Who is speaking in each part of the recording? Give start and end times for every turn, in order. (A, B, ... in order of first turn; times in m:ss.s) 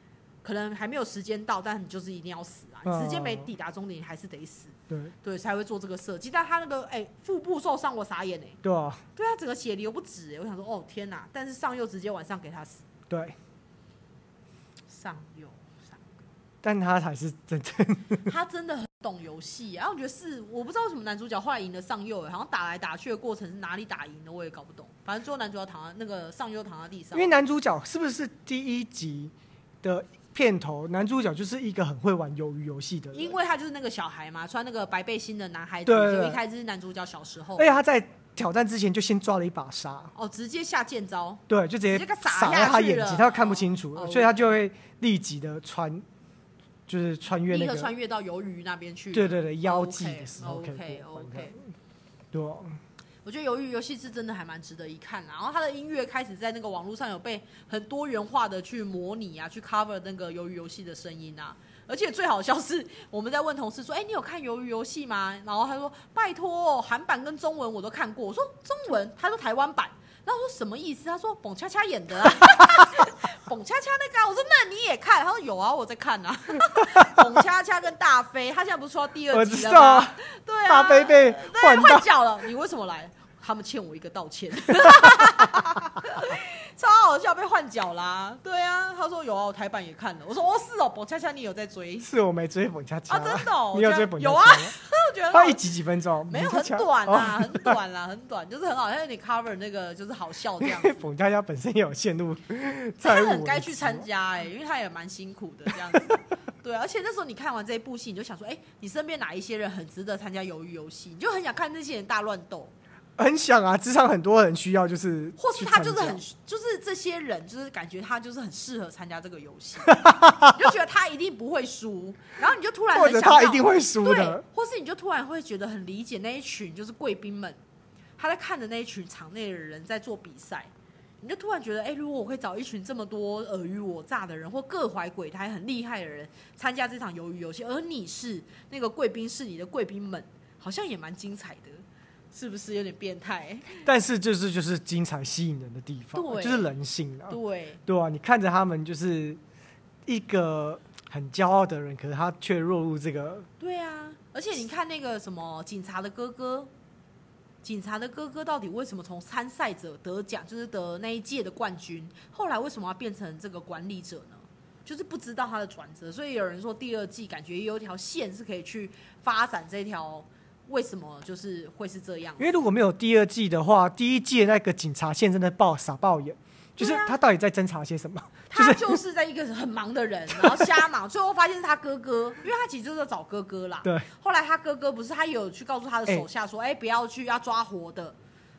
0:00.4-0:08.6 A
0:02.8-0:03.5 B
0:08.6-0:09.0 B
0:09.2-0:12.8 A
0:13.1-0:13.4 B
0:14.9-0:16.1 A
0:16.6-0:18.2 B
0:18.2-0:27.3 A
0:27.1-0:29.3 B
0:29.8-0:33.3 B
0:33.1-0:37.7 A
0:35.9-0:36.4 B
0:37.6-0:40.1 B
0:40.1-0:44.4 A
0:41.5-0:46.0 B
0:46.9-0:47.9 B
0:47.5-0:51.6 A
0:49.1-0:51.6 B
0:52.3-0:52.8 B
0:53.2-1:32.1 A
1:16.8-1:17.1 B
1:19.3-1:22.1 B
1:32.0-1:34.8 B
1:33.1-1:35.6 A
1:35.3-1:37.8 B
1:36.3-1:41.0 A
1:40.6-1:44.1 B
1:43.0-1:52.7 A
1:53.2-1:56.2 B
1:55.4-2:07.6 A
1:59.9-2:00.6 B
2:02.9-2:04.4 B
2:08.2-2:23.8 A
2:23.8-2:29.4 B
2:26.1-2:26.7 A
2:27.3-2:27.8 A
2:30.1-2:33.5 B
2:33.6-2:36.7 A
2:37.6-2:52.4 A
2:52.4-2:59.0 B
2:56.8-2:57.1 A
2:58.5-3:08.2 A
3:00.4-3:00.7 B